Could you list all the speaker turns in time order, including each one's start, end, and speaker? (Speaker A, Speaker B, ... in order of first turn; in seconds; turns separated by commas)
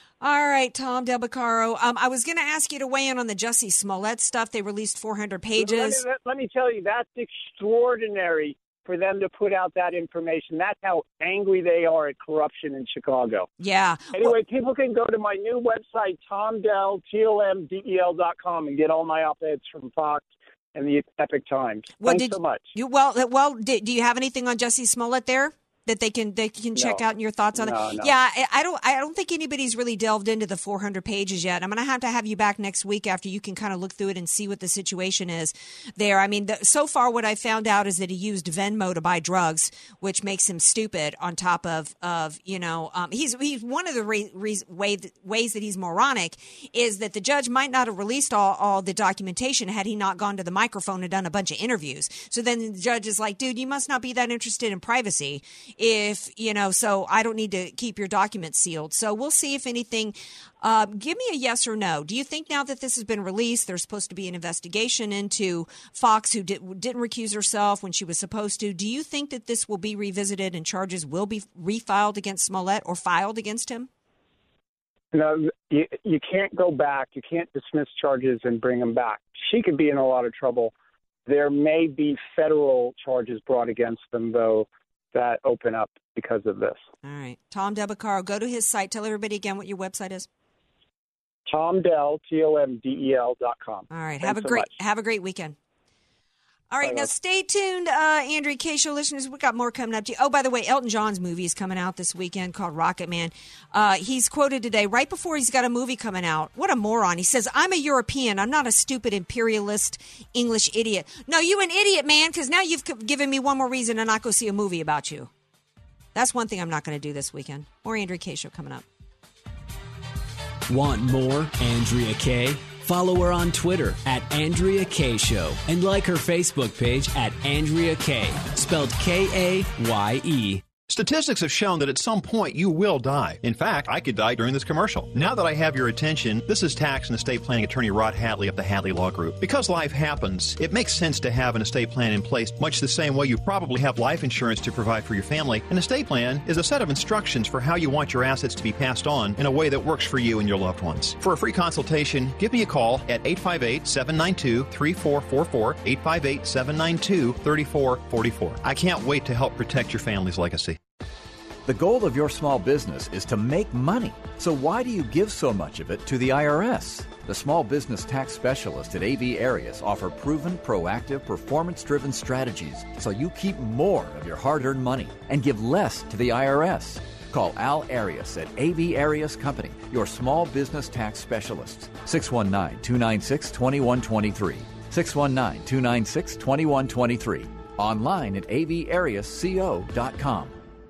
Speaker A: 0.2-6.0, Speaker B: 5.6-13.5, Speaker A: 13.6-14.3, Speaker B: 14.1-22.7, Speaker A: 22.0-73.9, Speaker B: 26.8-27.0, Speaker B: 27.6-28.1, Speaker B: 75.1-80.7, Speaker B: 81.3-86.8, Speaker A: 87.0-90.3, Speaker B: 91.5-94.7, Speaker A: 93.9-95.6, Speaker A: 96.7-115.3, Speaker A: 116.2-118.8, Speaker C: 120.7-130.6, Speaker D: 130.9-160.8, Speaker E: 161.7-190.6